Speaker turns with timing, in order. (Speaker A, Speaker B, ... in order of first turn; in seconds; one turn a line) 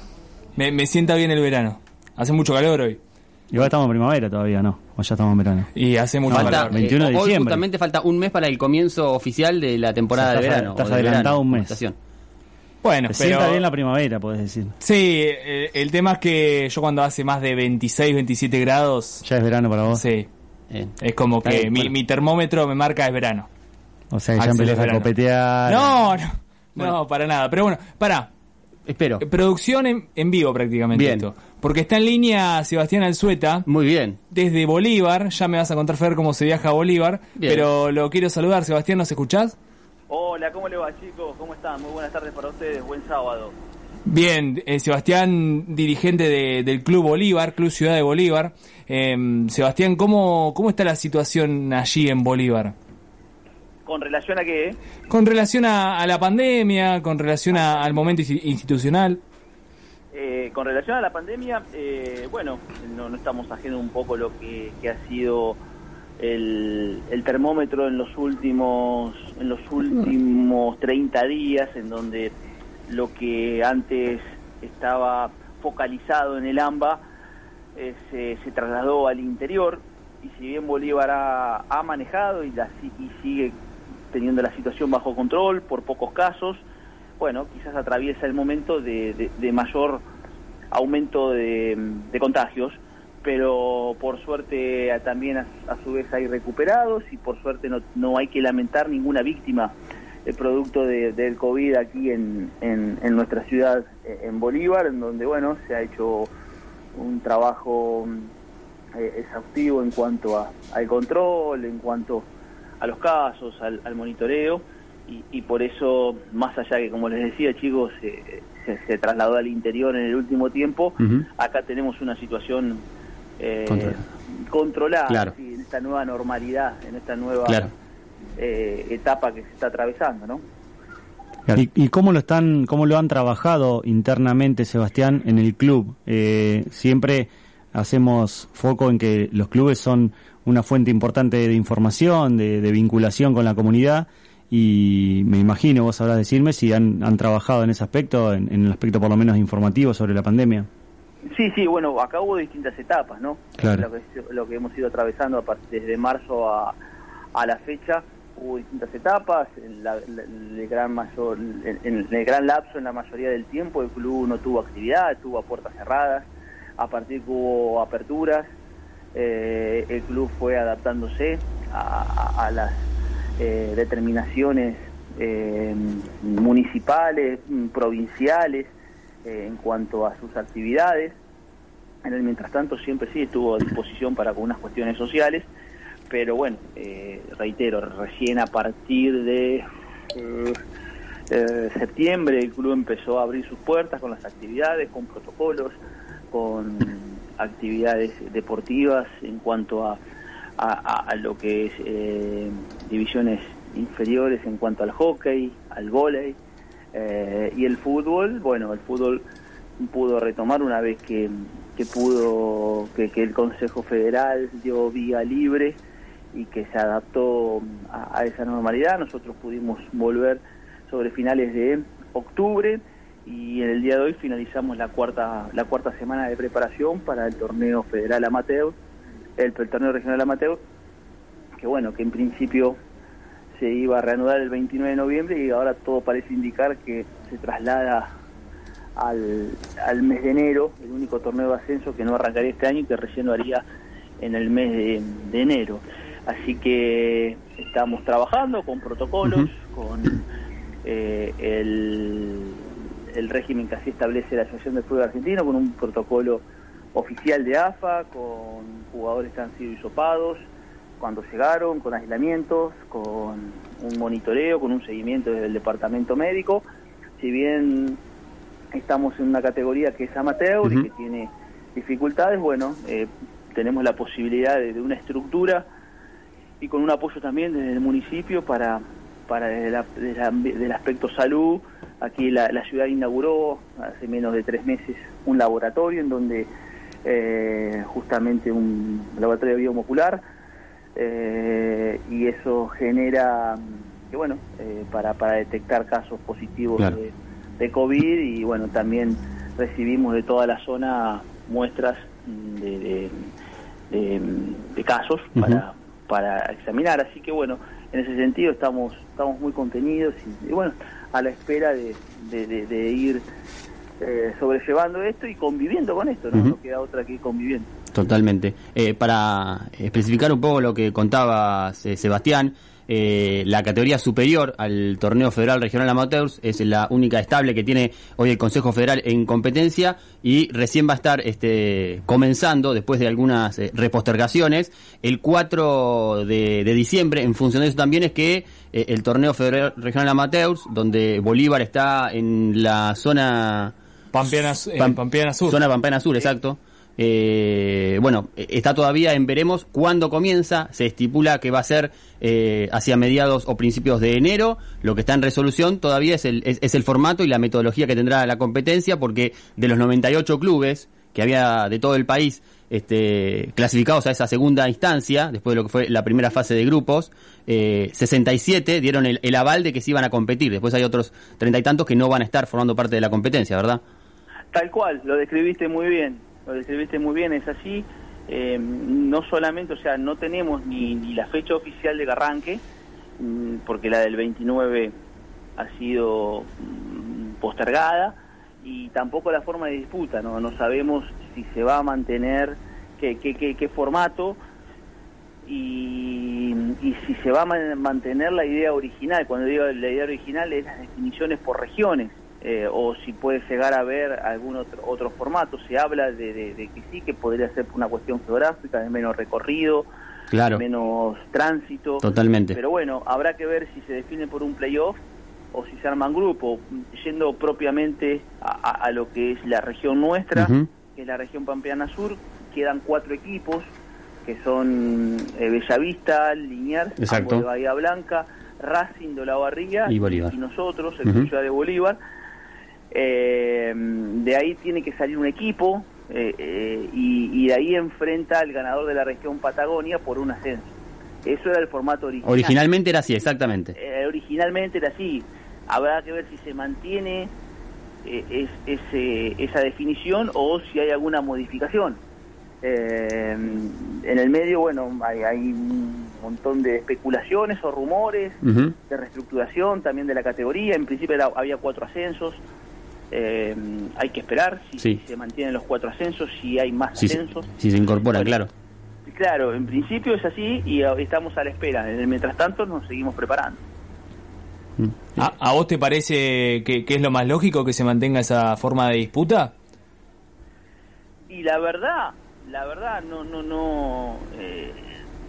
Speaker A: 0.6-3.0
Speaker B: 3.5-5.7
Speaker A: 5.7-6.7
Speaker B: 6.3-7.6
Speaker C: 6.3-12.0
Speaker B: 10.2-11.8
Speaker A: 12.8-13.6
Speaker B: 13.1-14.7
Speaker A: 14.8-19.2
Speaker B: 19.2-20.0
Speaker A: 19.9-20.3
Speaker C: 20.7-21.9
Speaker A: 21.0-23.5
Speaker B: 24.1-25.9
Speaker A: 24.4-25.1
Speaker A: 25.7-28.3
Speaker C: 28.9-29.2
Speaker A: 29.2-33.7
Speaker C: 30.9-31.3
Speaker C: 33.7-34.2
Speaker A: 34.3-39.5
Speaker C: 37.4-37.7
Speaker D: 40.1-43.5
Speaker A: 44.0-52.7
Speaker D: 53.9-54.8
Speaker A: 55.1-59.2
Speaker D: 57.5-58.1
Speaker D: 60.1-65.6
Speaker D: 66.2-72.3
Speaker D: 72.9-77.0
Speaker D: 77.8-83.5
Speaker D: 84.1-86.6
Speaker D: 87.2-90.0
Speaker D: 90.7-99.7
Speaker D: 100.2-106.3
Speaker D: 106.9-108.3
Speaker D: 108.9-112.3
Speaker D: 112.8-122.8
Speaker C: 121.0-121.2
Speaker D: 123.4-127.7
Speaker C: 123.7-124.0
Speaker D: 128.4-130.4
Speaker B: 131.5-150.7
Speaker D: 151.3-156.8
Speaker B: 153.6-153.8
Speaker D: 157.3-168.5
Speaker D: 169.1-172.8
Speaker D: 173.4-178.7
Speaker D: 179.2-181.2
Speaker D: 182.0-185.4
Speaker D: 186.1-190.6
Speaker D: 191.3-195.8
Speaker D: 196.3-200.0
Speaker D: 200.6-206.4
Speaker D: 206.9-209.2
Speaker D: 209.8-215.8
Speaker D: 216.3-228.8
Speaker D: 229.4-230.6
Speaker D: 231.6-232.8
Speaker D: 233.6-238.1
Speaker D: 239.0-243.6
Speaker D: 244.2-250.2
Speaker D: 250.8-260.4
Speaker D: 261.0-266.6
Speaker D: 267.2-268.0
Speaker D: 268.7-275.7
Speaker D: 276.6-286.5
Speaker D: 287.0-290.2
Speaker D: 290.9-303.3
Speaker D: 303.9-313.2
Speaker D: 314.0-317.7
Speaker C: 317.9-343.7
Speaker A: 344.1-345.6
Speaker C: 344.8-373.8
Speaker D: 374.5-382.6
Speaker D: 383.2-384.9
Speaker D: 385.6-394.4
Speaker D: 395.4-409.9
Speaker C: 410.3-410.6
Speaker D: 410.5-415.0
Speaker C: 412.0-412.6
Speaker D: 415.5-423.7
Speaker C: 420.4-420.7
Speaker D: 424.2-432.0
Speaker C: 427.0-427.4
Speaker C: 429.9-430.3
Speaker D: 432.9-442.6
Speaker C: 442.2-443.8
Speaker D: 443.8-447.3
Speaker D: 448.1-452.0
Speaker D: 452.6-462.4
Speaker C: 458.4-458.8
Speaker D: 463.1-467.5
Speaker C: 467.0-468.5
Speaker D: 469.1-473.6
Speaker A: 475.2-479.5
Speaker D: 481.3-484.9